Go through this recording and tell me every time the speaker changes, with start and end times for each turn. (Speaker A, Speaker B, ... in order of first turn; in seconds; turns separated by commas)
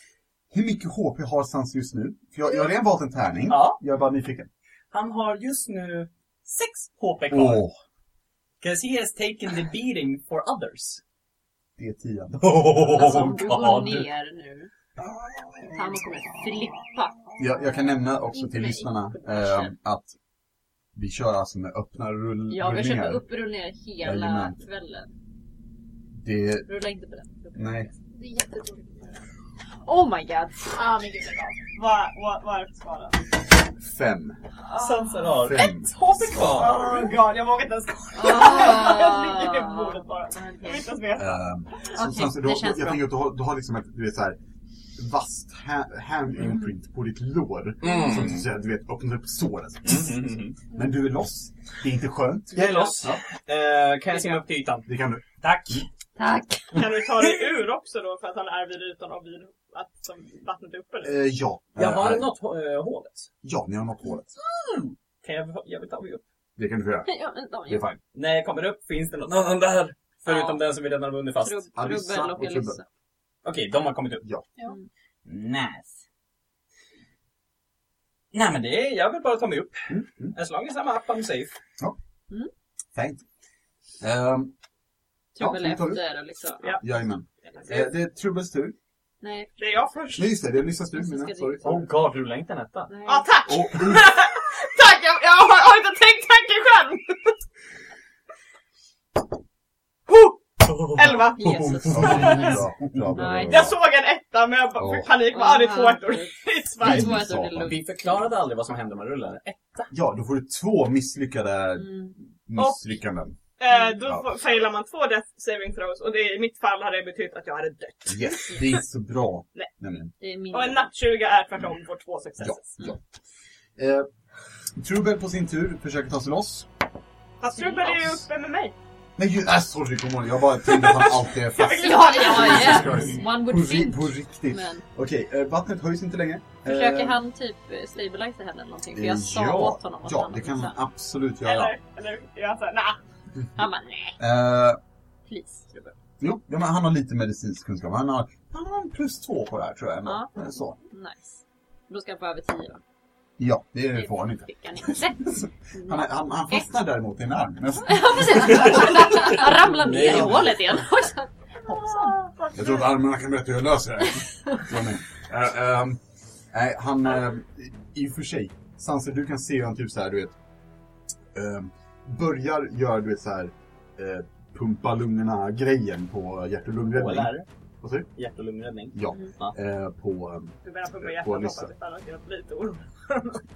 Speaker A: 0.5-4.5, Speaker B: 3.5-3.8, Speaker B: 4.9-7.6, Speaker A: 7.3-7.8, Speaker B: 8.6-11.0, Speaker A: 11.8-13.3, Speaker B: 12.4-14.1, Speaker C: 12.9-14.7, Speaker A: 15.0-16.5, Speaker C: 15.7-17.2, Speaker A: 17.4-20.1, Speaker D: 18.3-19.0, Speaker C: 19.3-19.7, Speaker A: 20.9-23.2, Speaker C: 22.5-25.1, Speaker A: 24.0-24.6, Speaker A: 26.1-26.7, Speaker C: 26.7-27.9, Speaker A: 27.5-27.9, Speaker D: 28.1-29.2, Speaker C: 29.8-30.8, Speaker D: 30.7-31.6, Speaker E: 31.7-33.2, Speaker A: 33.8-34.4, Speaker E: 34.8-35.8, Speaker B: 34.8-37.1, Speaker A: 35.4-36.9, Speaker E: 36.3-41.4, Speaker C: 38.1-40.9, Speaker A: 41.1-44.4, Speaker C: 41.9-43.1, Speaker A: 45.0-53.2, Speaker B: 47.8-48.4, Speaker B: 49.8-50.6, Speaker B: 52.5-54.9, Speaker E: 52.6-52.9, Speaker E: 54.1-54.4, Speaker A: 54.9-55.8, Speaker B: 55.4-55.9, Speaker C: 56.2-56.8, Speaker E: 56.7-61.2, Speaker A: 61.0-62.3, Speaker B: 61.7-63.3, Speaker A: 63.4-64.3, Speaker B: 65.2-66.2, Speaker A: 66.6-67.1, Speaker C: 67.0-67.8, Speaker A: 67.7-68.0, Speaker B: 68.1-71.6, Speaker C: 70.2-70.6, Speaker C: 71.3-72.8, Speaker A: 71.7-72.8, Speaker B: 73.4-74.2, Speaker B: 75.2-76.0, Speaker B: 78.3-81.5, Speaker A: 79.9-80.3, Speaker A: 82.9-83.2, Speaker A: 84.0-84.5, Speaker C: 85.3-86.8, Speaker A: 85.4-86.0, Speaker A: 86.8-88.7, Speaker E: 87.5-87.8, Speaker C: 89.2-89.7, Speaker E: 89.6-90.3, Speaker A: 90.1-92.0, Speaker C: 90.9-91.7, Speaker B: 91.6-92.9, Speaker C: 92.9-93.3, Speaker E: 93.0-97.4, Speaker A: 93.5-94.1, Speaker E: 100.1-100.3, Speaker B: 100.6-103.1, Speaker E: 100.9-102.6, Speaker C: 101.4-103.7, Speaker A: 101.9-103.8, Speaker E: 103.5-107.2, Speaker A: 104.8-105.1, Speaker C: 105.3-107.8, Speaker A: 106.8-107.8, Speaker B: 107.6-109.9, Speaker A: 109.9-113.3, Speaker C: 111.8-112.1, Speaker E: 112.5-112.9, Speaker E: 113.6-118.8, Speaker A: 118.1-120.1, Speaker C: 120.2-120.9, Speaker E: 120.5-122.9, Speaker A: 122.4-123.0, Speaker A: 123.8-124.1, Speaker A: 124.8-126.7, Speaker E: 127.4-128.7, Speaker A: 129.2-137.2, Speaker E: 131.0-133.0, Speaker C: 131.6-134.8, Speaker C: 136.6-140.7, Speaker A: 138.9-141.7, Speaker E: 141.4-143.0, Speaker C: 143.6-144.2, Speaker A: 144.2-144.8, Speaker C: 145.3-145.8, Speaker A: 146.2-150.8, Speaker C: 150.9-152.8, Speaker A: 153.4-160.8, Speaker C: 153.9-156.7, Speaker C: 157.8-161.3, Speaker B: 158.3-160.6, Speaker E: 161.6-162.9, Speaker A: 161.7-170.3, Speaker A: 171.3-178.1, Speaker B: 176.9-177.5, Speaker B: 178.2-179.5, Speaker A: 178.9-181.7, Speaker E: 180.6-183.4